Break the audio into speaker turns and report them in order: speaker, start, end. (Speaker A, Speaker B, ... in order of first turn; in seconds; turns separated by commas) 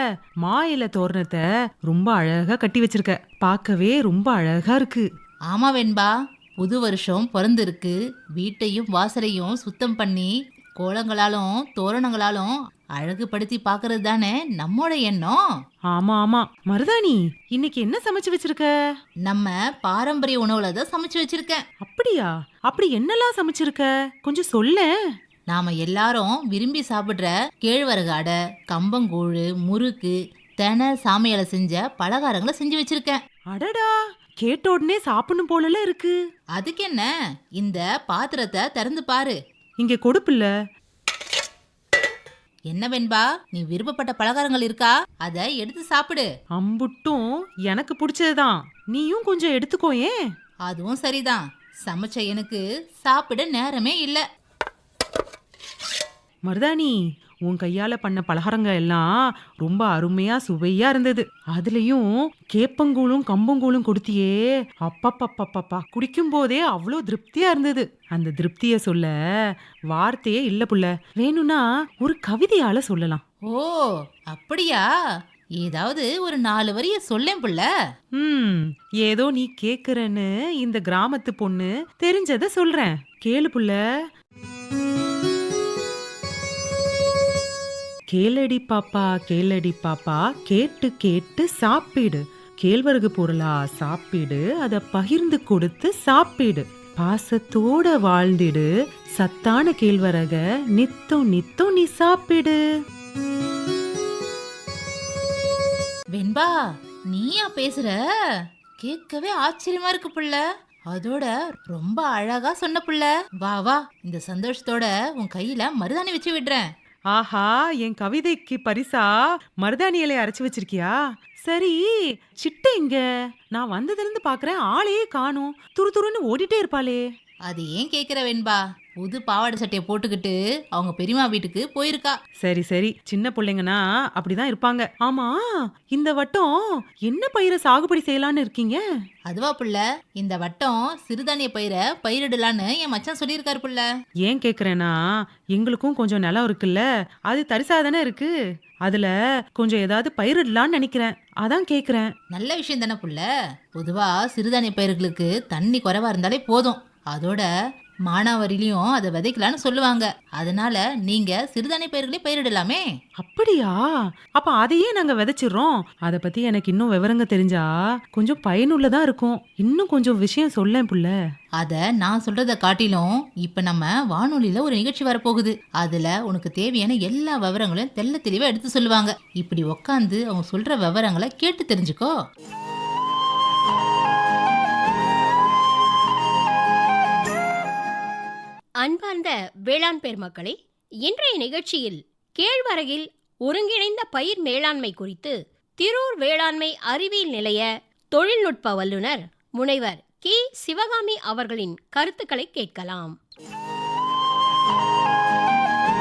Speaker A: 0.4-5.1, Speaker B: 5.5-15.4, Speaker A: 15.9-18.7, Speaker B: 19.2-21.6, Speaker A: 21.8-24.9, Speaker B: 25.5-33.2, Speaker A: 33.5-36.2, Speaker B: 36.5-39.4, Speaker A: 39.8-40.5, Speaker B: 42.7-46.3, Speaker A: 46.5-50.2, Speaker B: 50.7-54.2, Speaker A: 56.5-73.2, Speaker B: 73.5-74.8, Speaker B: 75.6-77.7, Speaker A: 78.2-83.8, Speaker A: 88.1-102.6, Speaker B: 106.2-116.7, Speaker A: 117.1-127.0, Speaker B: 127.5-132.2, Speaker A: 132.4-138.8, Speaker B: 139.3-143.8, Speaker A: 144.2-148.3, Speaker A: 148.8-152.1, Speaker B: 152.3-153.2, Speaker B: 153.8-157.5, Speaker B: 158.1-162.9, Speaker A: 163.2-171.1, Speaker B: 171.6-182.2, Speaker C: 188.8-203.2